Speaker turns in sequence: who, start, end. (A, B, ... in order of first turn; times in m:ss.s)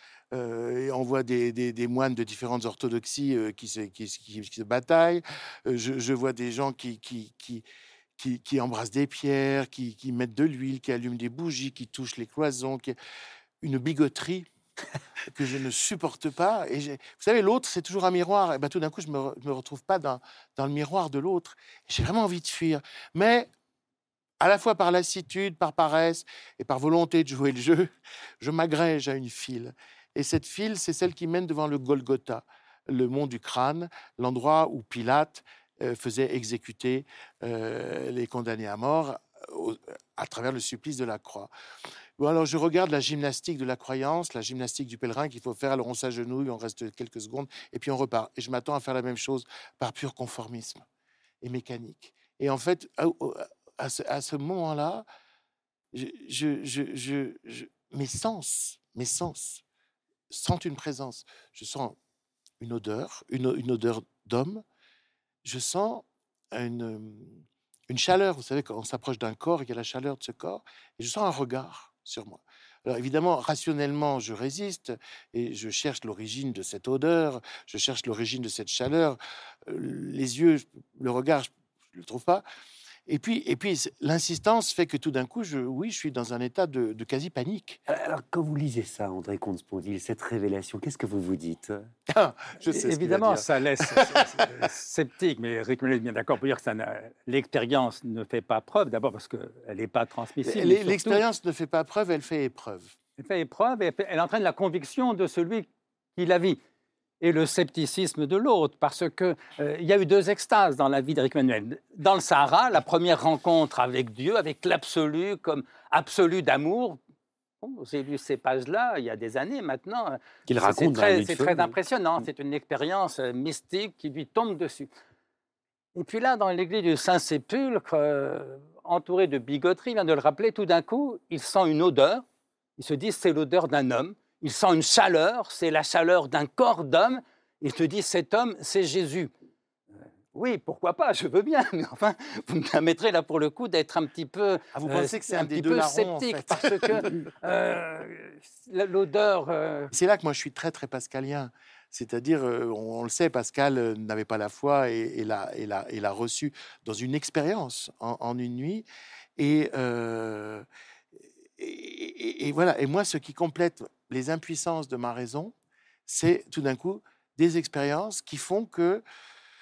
0:00.3-0:07.6 A
0:08.2-0:13.0 A
0:13.6-0:14.5 A
0:15.3-0:23.5 A
0:24.4-0:41.5 A
0:42.2-0:50.8 A
0:51.4-0:55.1 A
0:55.9-0:59.6 A
1:00.3-1:02.0 A
1:02.6-1:04.6 A
1:05.4-1:22.4 A
1:23.1-1:27.8 A
1:27.9-1:31.9 B
1:32.1-1:34.5 A
1:32.7-1:41.2 C
1:40.4-1:43.0 A
1:43.2-1:46.6 C
1:47.2-1:57.0 C
1:57.6-2:04.9 C
2:00.5-2:01.7 B
2:06.0-2:12.2 C
2:12.8-2:19.3 C
2:20.4-2:29.9 C
2:24.8-2:27.1 A
2:29.9-2:38.8 A
2:39.4-2:40.7 A
2:41.6-2:45.5 A
2:46.1-2:49.0 A